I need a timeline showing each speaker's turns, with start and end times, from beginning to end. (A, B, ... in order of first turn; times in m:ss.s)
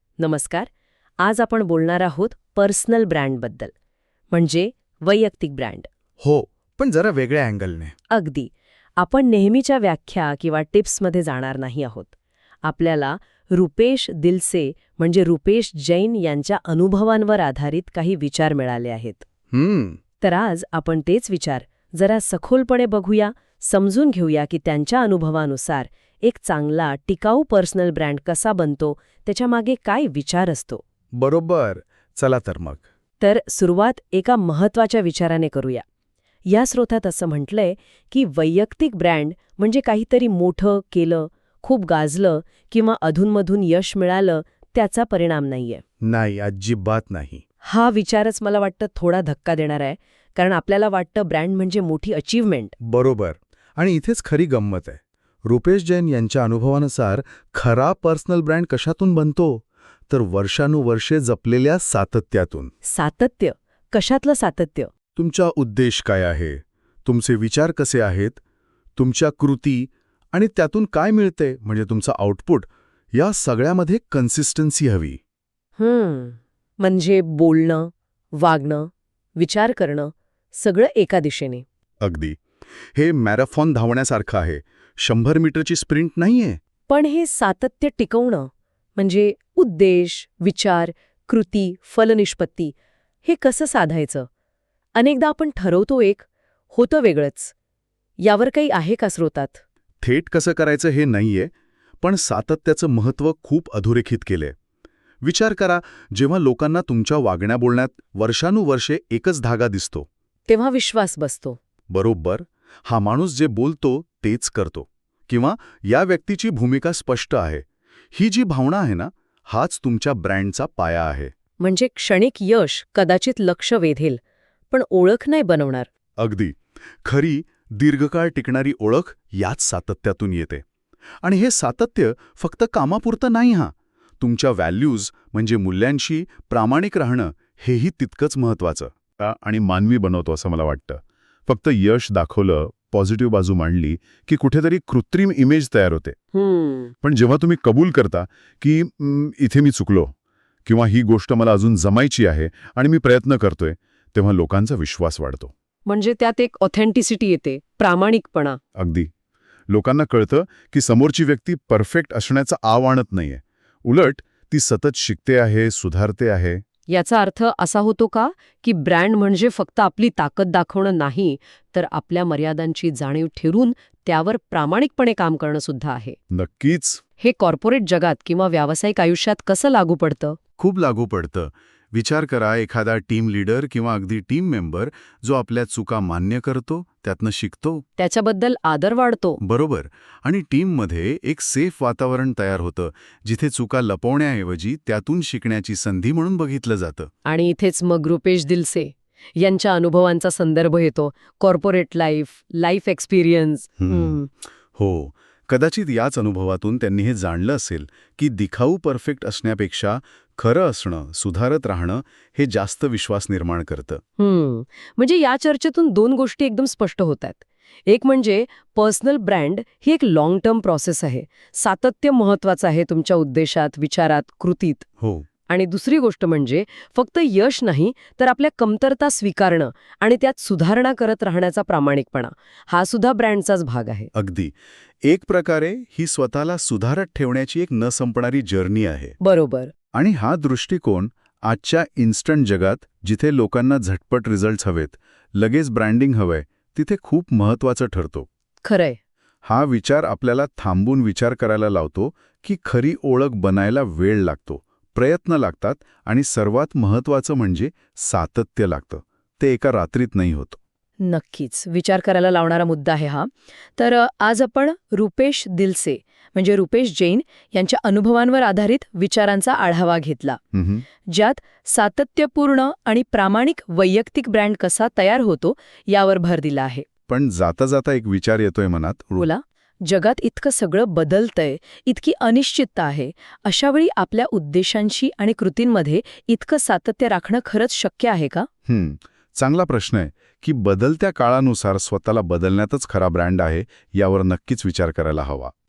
0:00.2-0:00.7 A
0:01.2-0:03.7 A
0:04.3-0:05.9 A
0:06.2-0:08.0 B
0:08.1-0:12.1 A
0:12.6-0:19.2 A
0:19.5-0:20.0 B
0:20.2-0:30.8 A
0:31.2-0:32.8 B
0:33.2-0:35.8 A
0:36.5-0:45.8 A
0:46.0-0:47.4 B
0:47.6-0:52.8 A
0:52.8-1:02.7 B
1:02.8-1:04.9 A
1:05.2-1:08.4 B
1:09.0-1:15.2 B
1:15.8-1:21.6 A
1:22.0-1:22.4 B
1:22.9-1:26.6 B
1:26.9-1:34.3 A
1:35.0-1:37.5 A
1:38.2-1:39.6 A
1:40.0-1:44.6 B
1:45.2-1:50.1 B
1:50.5-1:51.6 A
1:51.9-2:01.3 B
2:01.6-2:04.2 A
2:04.7-2:05.9 A
2:06.2-2:10.6 B
2:11.2-2:26.2 B
2:26.3-2:26.9 A
2:27.0-2:30.1 B
2:30.7-2:35.5 B
2:35.9-2:38.6 A
2:38.8-2:39.1 B
2:39.7-2:46.6 B
2:46.9-2:56.2 A
2:56.3-2:57.0 B
2:57.2-3:00.4 A
3:00.6-3:07.8 B
3:08.0-3:09.4 A
3:09.4-3:17.1 B
3:17.2-3:24.3 A
3:23.8-3:24.2 B
3:24.7-3:34.0 B
3:34.2-3:44.9 A
3:45.0-3:45.3 B
3:45.5-3:54.1 A
3:54.1-3:59.2 B
3:59.2-3:59.7 A
3:59.9-4:08.3 B
4:08.6-4:09.0 A
4:09.4-4:20.6 B
4:21.0-4:30.4 A
4:30.5-4:30.8 B
4:31.0-4:36.9 A
4:37.1-4:39.3 B
4:39.2-4:48.5 A
4:48.7-4:55.5 B